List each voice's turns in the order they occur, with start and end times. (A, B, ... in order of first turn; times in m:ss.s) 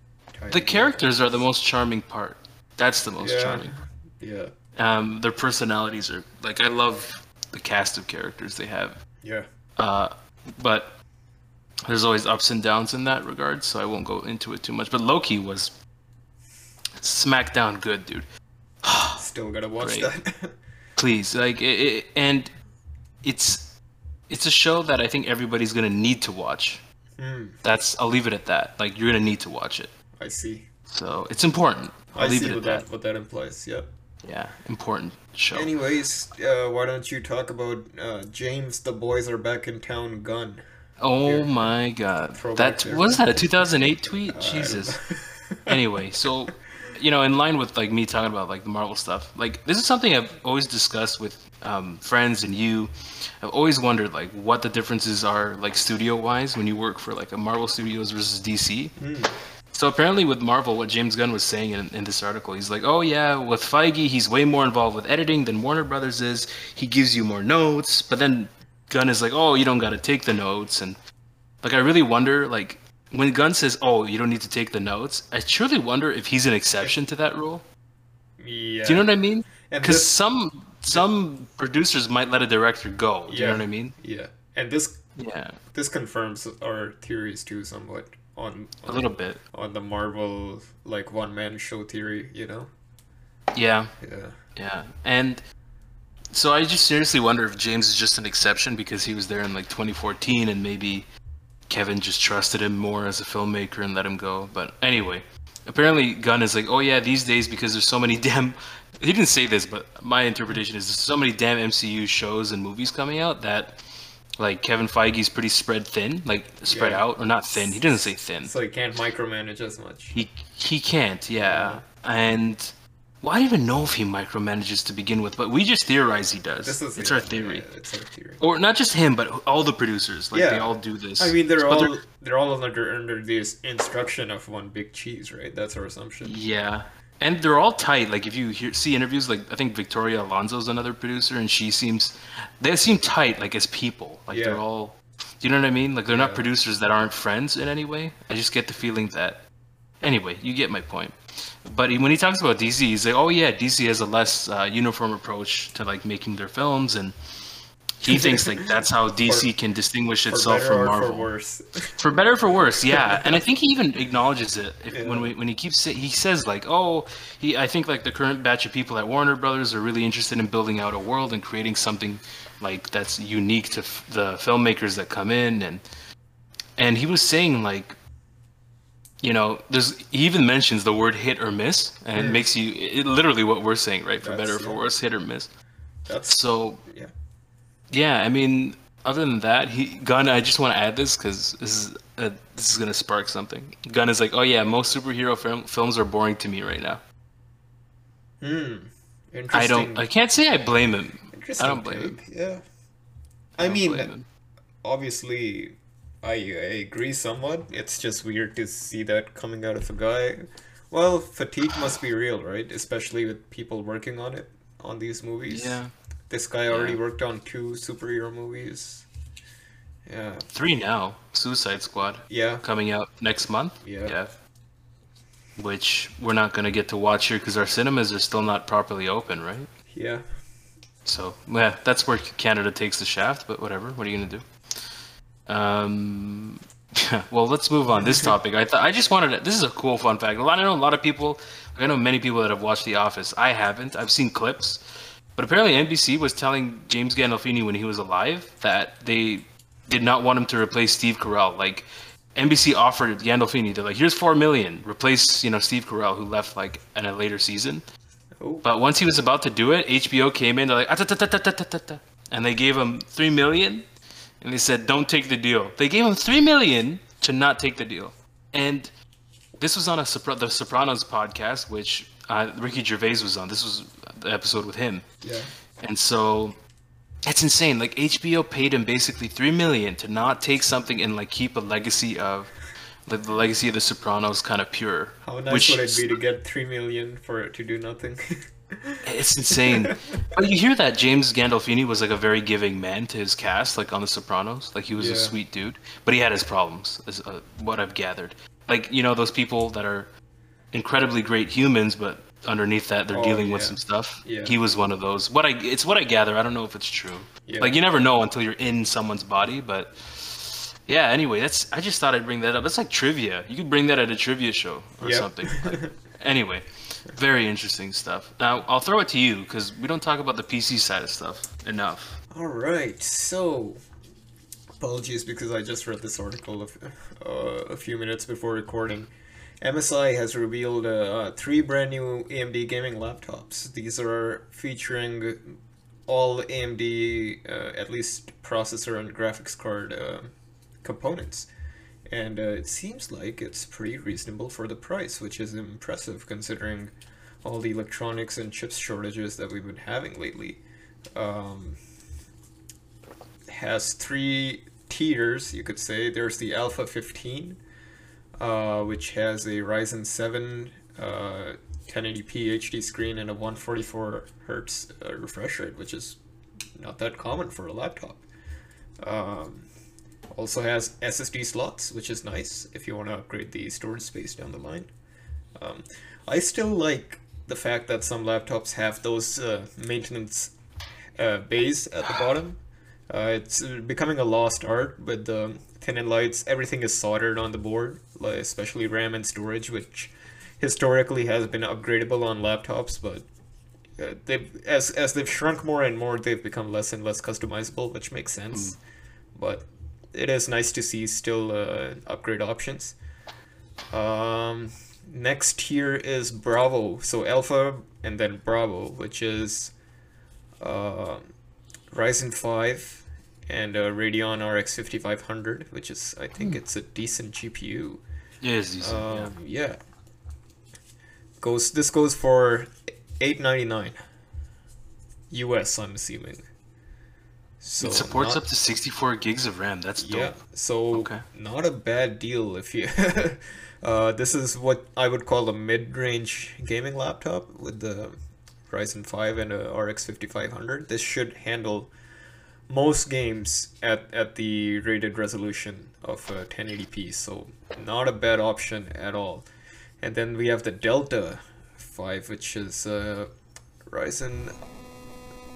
0:00.4-0:01.1 A
0:00.5-0:03.7 B
0:03.2-0:04.5 A
0:04.8-0:09.0 B
0:09.8-0:11.0 B
0:11.8-0:15.7 B
0:17.0-0:18.3 B
0:18.8-0:19.2 B
0:19.2-0:20.5 A
0:19.8-0:20.1 B
0:21.0-0:22.5 B
0:23.2-0:23.8 B
0:24.3-0:26.8 B
0:27.2-0:27.6 A
0:27.6-0:29.9 B
0:30.2-0:30.7 A
0:30.9-0:32.8 B
0:32.2-0:33.9 A
0:34.2-0:35.7 B
0:35.5-0:40.6 A
0:41.0-0:45.0 B
0:41.2-0:41.7 A
0:42.3-0:43.7 A
0:44.3-0:45.7 A
0:45.7-0:59.0 B
0:59.0-0:59.3 A
0:59.7-1:11.0 B
1:11.6-1:17.6 B
1:18.4-1:19.1 A
1:18.9-1:24.0 B
1:19.7-1:20.1 A
1:23.3-1:25.0 A
1:25.2-1:25.6 B
1:25.7-1:32.7 A
1:28.9-1:29.4 B
1:33.5-1:33.9 B
1:34.0-1:34.4 A
1:34.6-1:35.4 B
1:36.3-1:41.1 B
1:41.7-1:53.8 B
1:54.4-1:58.5 B
1:56.7-1:57.0 A
1:57.9-2:00.2 A
2:00.1-2:07.7 B
2:01.4-2:01.8 A
2:06.6-2:08.4 A
2:08.4-2:12.0 B
2:10.3-2:16.4 A
2:16.2-2:29.4 B
2:24.3-2:24.6 A
2:26.1-2:26.5 A
2:30.0-2:37.2 B
2:38.0-2:41.3 B
2:38.1-2:38.7 A
2:40.3-2:41.9 A
2:42.0-2:55.8 B
2:42.7-2:43.4 A
2:44.9-2:45.3 A
2:56.8-2:58.0 B
2:59.2-3:05.5 B
3:02.2-3:02.5 A
3:04.2-3:04.8 A
3:06.1-3:07.1 A
3:06.3-3:06.8 B
3:07.9-3:17.0 B
3:18.4-3:20.0 A
3:19.5-3:22.2 B
3:21.3-3:22.6 A
3:23.6-3:24.1 A
3:23.6-3:24.3 B
3:24.8-3:35.8 A
3:35.5-3:35.9 B
3:36.3-3:39.1 A
3:36.7-3:37.0 B
3:40.1-3:40.4 A
3:40.5-3:44.3 B
3:42.3-3:42.6 A
3:43.8-3:44.2 A
3:45.6-3:49.7 B
3:49.9-3:50.2 A
3:51.0-3:55.0 B
3:55.5-4:04.8 B
3:57.9-3:58.4 A
4:05.4-4:17.8 B
4:18.4-4:18.7 A
4:18.6-4:23.9 B
4:24.4-4:28.9 B
4:29.6-4:35.1 B
4:35.2-4:35.5 A
4:35.8-4:36.6 B
4:37.2-4:42.5 B
4:43.1-4:46.2 B
4:45.2-4:50.3 A
4:49.0-5:00.1 B
4:55.0-4:55.4 A
5:00.7-5:22.2 B
5:03.1-5:04.6 A
5:07.5-5:07.8 A
5:15.0-5:15.9 A
5:22.3-5:23.8 A
5:24.8-5:35.4 A
5:36.1-5:40.3 A
5:40.8-5:41.5 A
5:42.1-5:46.9 A
5:47.4-5:50.6 A
5:51.2-5:51.8 A
5:53.5-5:57.6 A
5:58.4-6:06.2 A
6:06.8-6:08.2 A
6:09.0-6:09.7 A
6:10.3-6:14.9 A
6:15.6-6:20.5 A
6:21.2-6:22.6 A
6:23.1-6:33.3 A
6:34.0-6:38.8 A
6:39.4-6:43.0 A
6:43.9-6:49.7 A
6:50.6-6:51.3 A
6:51.9-6:58.0 A
6:58.4-6:59.4 B
6:58.8-6:59.8 A
7:01.4-7:04.0 A
7:05.3-7:06.4 A
7:07.6-7:08.4 A
7:07.8-7:10.3 B
7:10.0-7:18.2 A
7:10.9-7:11.2 B
7:18.7-7:21.9 A
7:22.7-7:29.5 A
7:30.0-7:33.3 A
7:33.9-7:34.5 A